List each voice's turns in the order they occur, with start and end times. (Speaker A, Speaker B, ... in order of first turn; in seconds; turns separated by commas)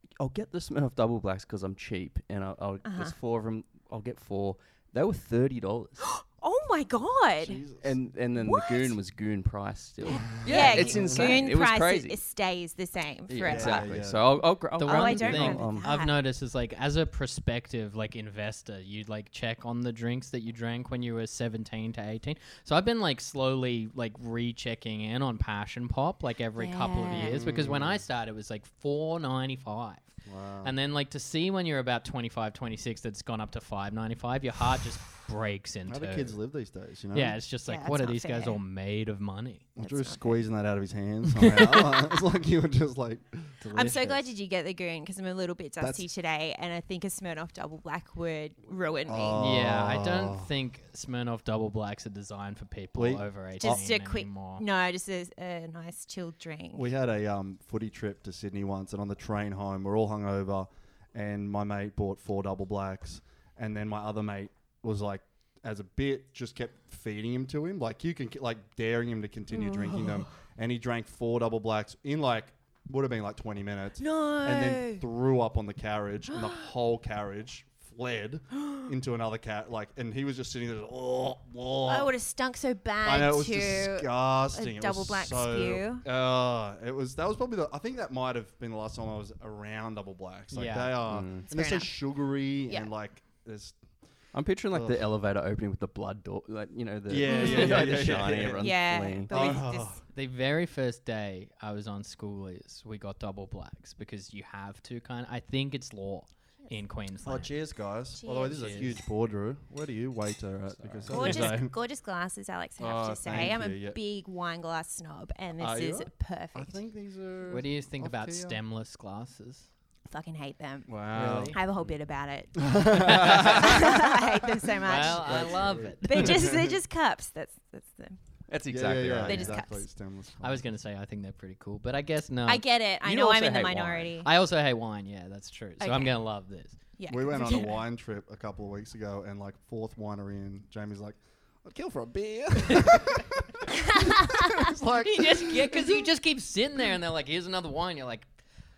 Speaker A: 0.2-6.0, Speaker B: 2.9-3.1, Speaker B: 6.0-7.6, Speaker C: 7.4-7.9, Speaker A: 7.8-12.2, Speaker B: 8.4-9.0, Speaker B: 10.1-13.9, Speaker C: 10.4-11.4, Speaker A: 13.3-15.9, Speaker C: 13.4-14.4, Speaker D: 14.8-36.4, Speaker B: 14.8-16.2, Speaker B: 26.6-27.4, Speaker C: 27.1-28.0, Speaker C: 30.3-30.7, Speaker C: 35.9-37.4, Speaker D: 37.1-39.7, Speaker B: 37.7-38.6, Speaker C: 39.8-43.6, Speaker B: 39.8-40.4, Speaker D: 41.4-42.0, Speaker D: 43.6-44.2, Speaker B: 43.7-49.5, Speaker C: 49.1-50.5, Speaker D: 49.4-54.6, Speaker C: 53.0-53.8, Speaker B: 53.6-56.9, Speaker C: 56.7-82.1, Speaker B: 69.5-70.3, Speaker B: 74.0-75.0, Speaker B: 76.3-76.7, Speaker B: 78.6-78.9, Speaker B: 81.9-86.0, Speaker C: 83.0-93.8, Speaker D: 90.5-91.0, Speaker A: 91.1-91.5, Speaker B: 91.5-91.9, Speaker A: 94.3-99.5, Speaker C: 94.7-95.1, Speaker C: 97.1-98.7, Speaker B: 97.3-100.0, Speaker C: 99.3-100.0, Speaker D: 100.1-107.5, Speaker C: 107.2-111.7, Speaker B: 108.2-109.1, Speaker D: 108.5-108.9, Speaker A: 110.8-111.5, Speaker B: 111.1-116.8, Speaker C: 112.8-114.0, Speaker C: 115.6-118.6, Speaker D: 117.5-119.7, Speaker B: 120.1-121.0, Speaker C: 120.9-121.6, Speaker D: 121.1-121.6, Speaker B: 121.5-128.2, Speaker C: 122.6-126.8, Speaker D: 123.0-124.0, Speaker D: 124.8-126.5, Speaker A: 128.5-129.6, Speaker C: 128.7-130.6, Speaker B: 129.2-129.9, Speaker D: 130.4-132.6, Speaker B: 132.5-134.3, Speaker A: 133.0-134.2, Speaker D: 134.2-136.8, Speaker B: 135.8-136.2, Speaker B: 137.0-137.8, Speaker C: 137.1-146.1, Speaker D: 142.7-142.9, Speaker B: 143.8-144.7, Speaker D: 145.0-148.3